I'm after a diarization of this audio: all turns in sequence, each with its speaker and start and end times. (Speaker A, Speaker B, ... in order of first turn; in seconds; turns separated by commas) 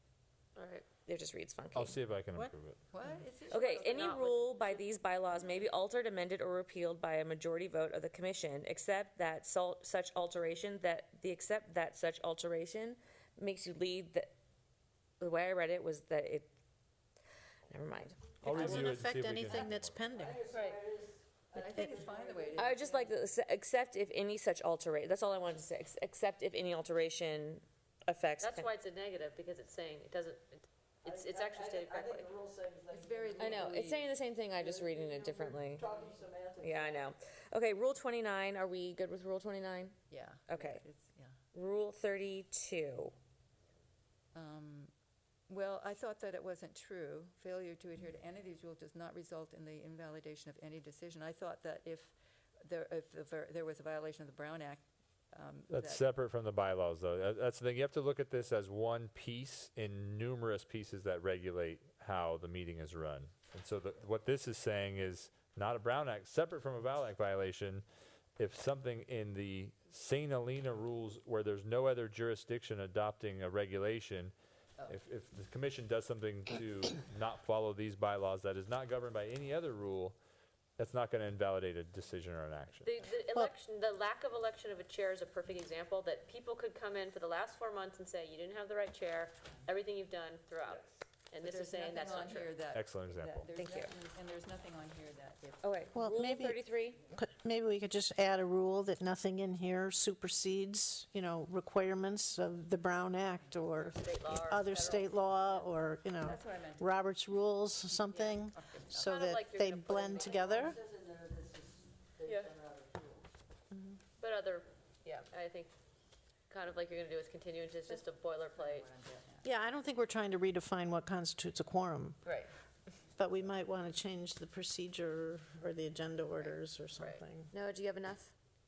Speaker A: 0.6-0.9, Speaker B: 0.9-2.0, Speaker C: 1.7-2.8, Speaker D: 2.9-4.9, Speaker B: 3.5-14.3, Speaker B: 15.2-16.5, Speaker B: 17.7-18.9, Speaker C: 18.4-20.0, Speaker E: 18.4-20.4, Speaker F: 20.1-22.7, Speaker A: 20.5-20.8, Speaker D: 21.5-23.2, Speaker B: 22.5-28.7, Speaker A: 28.4-32.3, Speaker F: 31.0-33.9, Speaker D: 32.9-34.2, Speaker B: 33.4-35.9, Speaker F: 34.5-37.1, Speaker B: 36.6-40.8, Speaker D: 40.1-41.4, Speaker B: 41.5-43.1, Speaker D: 44.3-44.9, Speaker D: 45.5-56.0, Speaker C: 55.7-67.8, Speaker C: 68.4-74.3, Speaker C: 74.8-80.2, Speaker C: 80.8-82.9, Speaker A: 82.8-92.5, Speaker D: 91.4-96.1, Speaker C: 92.7-93.5, Speaker B: 93.5-93.9, Speaker B: 95.6-97.0, Speaker E: 95.9-110.8, Speaker A: 103.7-105.7, Speaker D: 106.2-107.0, Speaker D: 107.9-109.3, Speaker A: 109.0-110.5, Speaker F: 110.2-113.2, Speaker A: 112.2-112.5, Speaker E: 113.7-114.0, Speaker A: 114.2-115.7, Speaker A: 116.5-118.9, Speaker D: 117.8-119.5, Speaker E: 119.4-122.2, Speaker E: 123.2-127.5, Speaker A: 126.4-127.2, Speaker B: 127.4-128.3